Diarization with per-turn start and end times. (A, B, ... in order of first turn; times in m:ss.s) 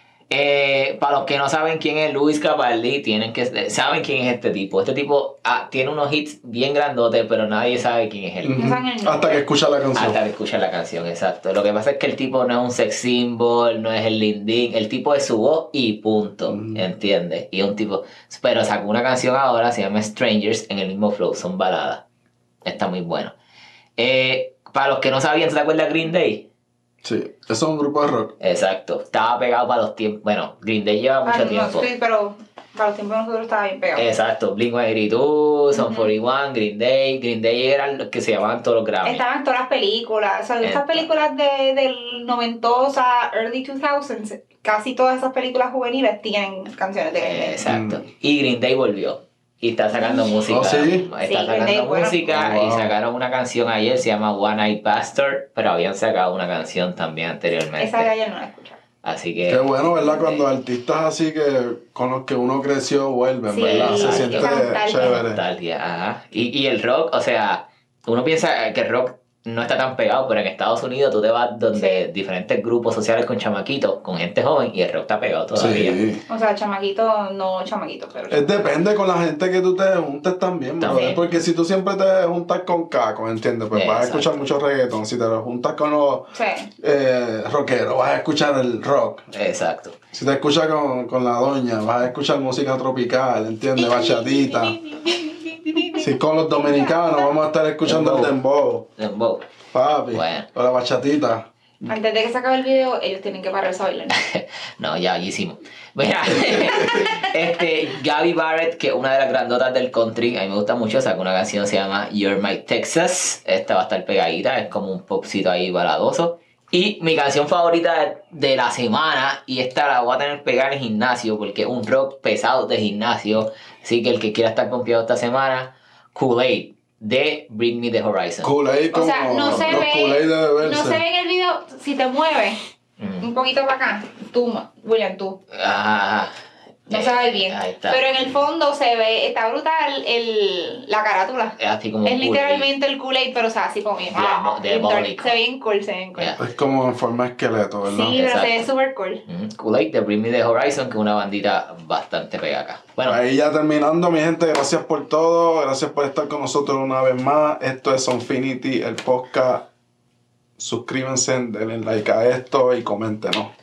0:00.3-0:08.6 A
0:08.4-0:10.2 B
0:08.6-0:09.4 C
0:09.9-0:22.0 A
0:16.5-0:16.8 B
0:22.6-0:23.3 A
0:24.0-0:26.5 A
0:27.0-0:28.3 B
0:28.4-0:31.9 A
0:31.2-0:34.1 C
0:33.9-0:39.2 A
0:35.7-0:36.1 C
0:39.0-0:47.6 C
0:40.6-0:41.1 A
0:47.2-0:58.1 A
0:47.6-0:48.0 B
0:50.0-0:50.3 C
0:50.5-0:51.1 B
0:51.2-0:52.2 C
0:52.3-0:52.9 B
0:57.8-0:58.8 C
0:59.0-1:00.4 A
0:59.5-1:05.4 B
1:03.5-1:05.2 C
1:03.6-1:16.0 A
1:11.8-1:12.0 C
1:15.5-1:16.2 B
1:16.3-1:18.8 C
1:18.3-1:29.2 B
1:20.8-1:21.4 A
1:23.7-1:24.5 A
1:26.3-1:26.7 C
1:29.3-1:30.0 A
1:30.1-1:34.8 B
1:33.8-1:37.3 C
1:36.0-1:38.9 B
1:37.8-1:38.3 A
1:39.0-1:39.4 A
1:39.7-1:41.4 B
1:40.1-1:40.5 A
1:41.9-1:44.1 C
1:44.1-2:08.5 A
2:08.4-2:11.0 B
2:08.9-2:12.6 C
2:09.5-2:09.8 A
2:13.0-2:13.3 A
2:13.2-2:15.4 C
2:15.5-2:16.3 A
2:16.9-2:18.0 A
2:16.9-2:26.4 C
2:21.6-2:22.7 A
2:24.1-2:25.4 A
2:26.2-2:26.4 A
2:26.4-2:28.1 B
2:27.9-2:29.2 C
2:28.1-2:28.6 A
2:29.3-2:33.2 A
2:33.0-2:39.6 B
2:40.6-2:43.5 B